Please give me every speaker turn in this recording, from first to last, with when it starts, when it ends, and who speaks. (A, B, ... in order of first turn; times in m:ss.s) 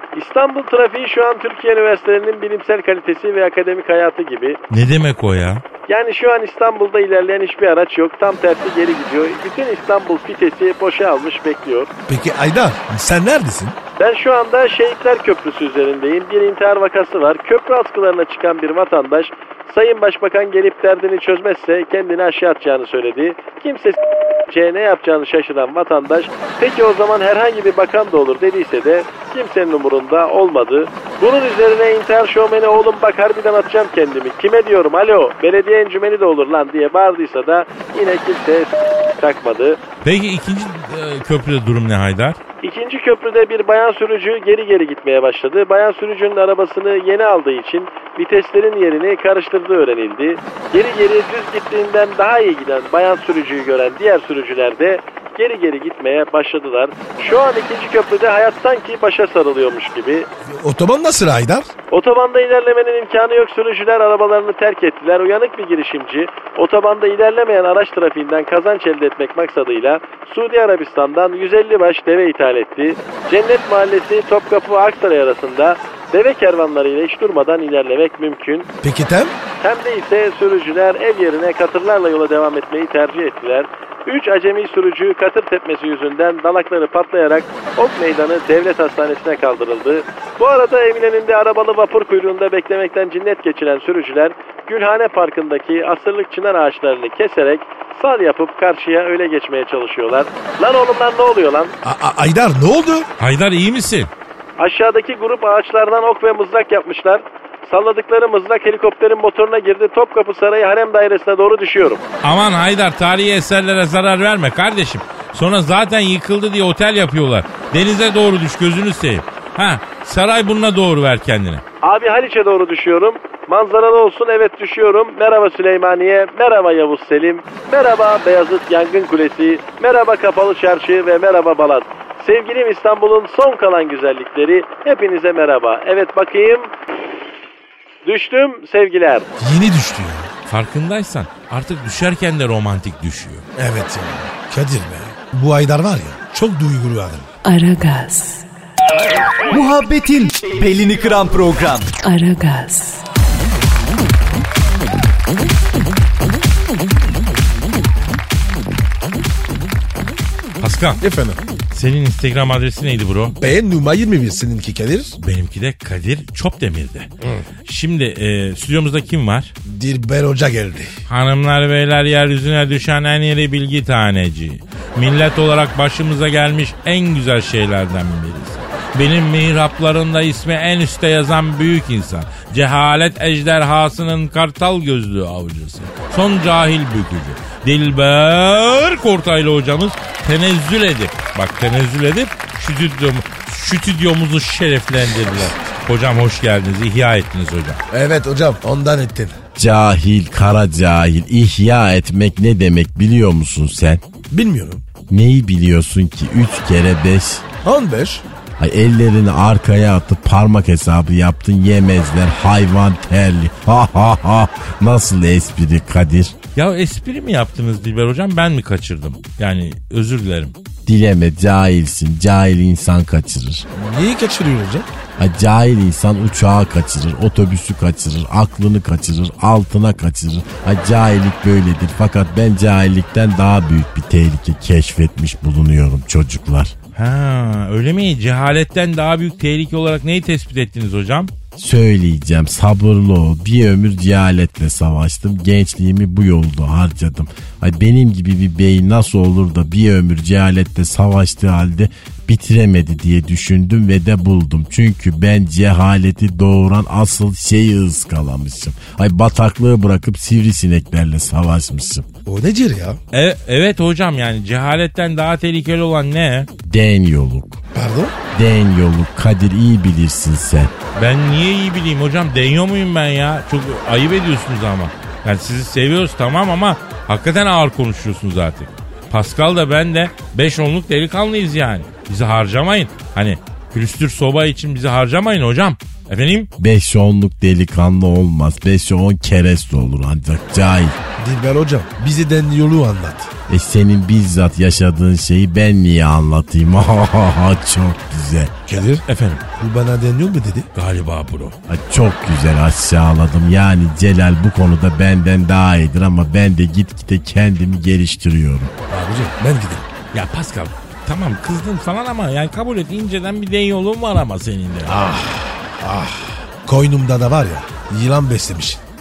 0:00.2-0:04.6 A
0:04.7-0:05.6 B
0:05.9-0:11.9 A
0:12.1-0:13.8 C
0:14.0-0:39.8 A
0:40.0-0:42.4 B
0:42.6-1:00.3 A
1:00.5-1:01.7 C
1:01.9-1:18.7 A
1:18.8-1:19.3 C
1:19.6-1:41.7 A
1:41.8-1:43.1 C
1:43.2-1:44.1 B
1:44.6-1:52.0 A
1:52.2-2:01.6 B
2:01.8-2:16.7 A
2:18.0-2:19.3 A
2:19.4-2:20.3 C
2:20.5-2:23.5 B
2:23.6-2:27.3 C
2:27.4-2:28.4 D
2:29.5-2:31.9 E
2:32.0-2:33.0 D
2:40.6-2:41.0 B
2:41.0-2:41.4 C
2:41.7-2:43.4 B
2:43.4-2:45.2 C
2:45.2-2:47.1 B
2:47.7-2:49.5 B
2:49.6-2:51.0 C
2:51.1-3:17.8 B
3:17.9-3:19.4 C
3:19.6-3:24.0 F
3:24.3-3:24.8 C
3:25.1-3:27.4 F
3:27.6-3:28.2 C
3:28.6-3:36.4 F
3:36.6-3:40.6 B
3:40.9-3:43.7 F
3:43.7-3:44.9 C
3:45.2-3:56.7 F
3:57.0-4:01.3 B
4:01.6-4:22.1 F
4:22.3-4:23.0 C
4:23.1-4:26.5 B
4:26.6-4:27.6 F
4:27.7-4:28.2 C
4:28.3-4:30.7 F
4:31.0-4:46.5 B
4:46.6-4:51.0 F
4:51.2-4:53.3 C
4:53.5-4:58.5 F
4:58.7-4:59.0 C
4:59.1-4:59.4 B
4:59.6-5:00.7 C
5:00.8-5:01.6 B
5:01.7-5:08.7 F
5:08.9-5:09.9 C
5:10.1-5:14.9 B
5:14.9-5:18.8 C